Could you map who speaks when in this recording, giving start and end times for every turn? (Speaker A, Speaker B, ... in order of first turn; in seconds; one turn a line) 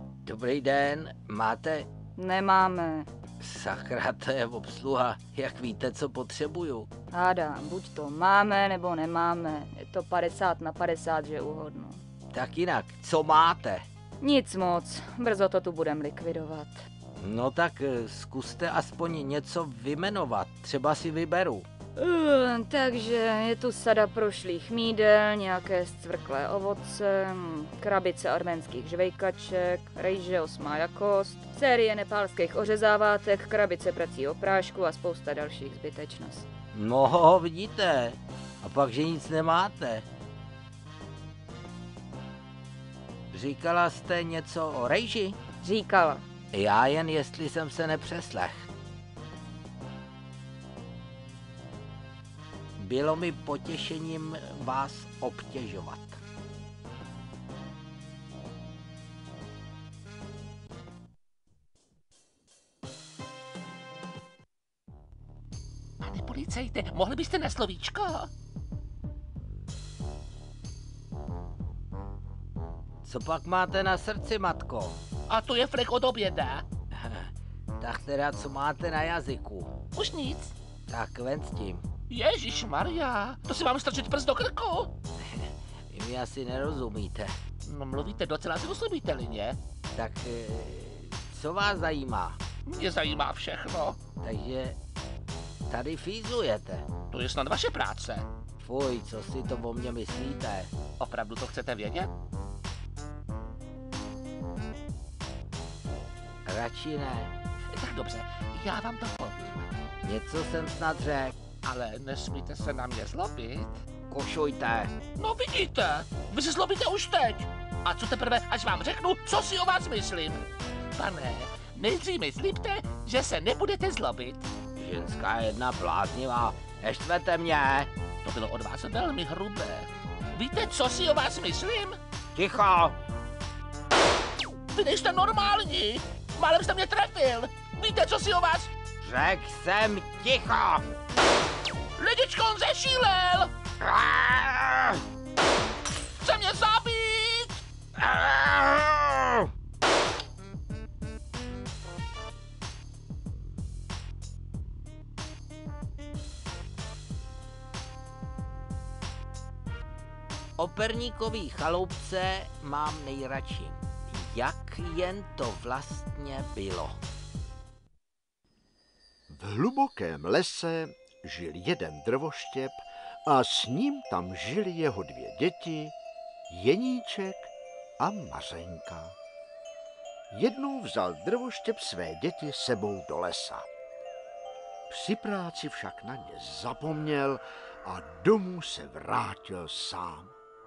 Speaker A: 0.2-1.9
Speaker B: 2.1-3.1
Speaker A: 3.4-6.9
Speaker B: 7.1-12.0
Speaker A: 12.3-13.9
Speaker B: 14.2-16.8
Speaker A: 17.2-21.7
Speaker B: 21.9-36.5
Speaker A: 36.7-40.1
Speaker A: 43.3-45.4
Speaker B: 45.6-46.2
Speaker A: 46.5-48.7
Speaker A: 52.8-56.2
Speaker C: 66.0-68.3
Speaker A: 73.0-75.0
Speaker C: 75.3-76.6
Speaker A: 77.0-79.8
Speaker C: 79.9-80.5
Speaker A: 80.9-81.8
Speaker C: 82.1-84.9
Speaker A: 85.2-87.3
Speaker C: 87.6-89.6
Speaker A: 89.9-92.4
Speaker C: 92.7-94.0
Speaker A: 94.2-94.8
Speaker A: 95.7-96.9
Speaker C: 97.1-98.3
Speaker A: 98.6-100.7
Speaker C: 101.0-102.1
Speaker A: 106.5-107.3
Speaker C: 107.7-109.6
Speaker A: 110.0-111.3
Speaker C: 111.6-113.8
Speaker A: 114.1-114.9
Speaker C: 115.2-120.4
Speaker C: 120.9-124.5
Speaker A: 124.8-127.9
Speaker C: 128.2-132.0
Speaker A: 132.3-133.0
Speaker C: 134.7-138.7
Speaker A: 139.0-140.8
Speaker C: 142.0-143.5
Speaker A: 143.8-144.9
Speaker C: 146.0-147.6
Speaker A: 148.0-149.4
Speaker A: 160.6-167.0
Speaker D: 169.3-175.9
Speaker D: 176.5-179.2
Speaker D: 180.3-183.7
Speaker D: 184.9-190.3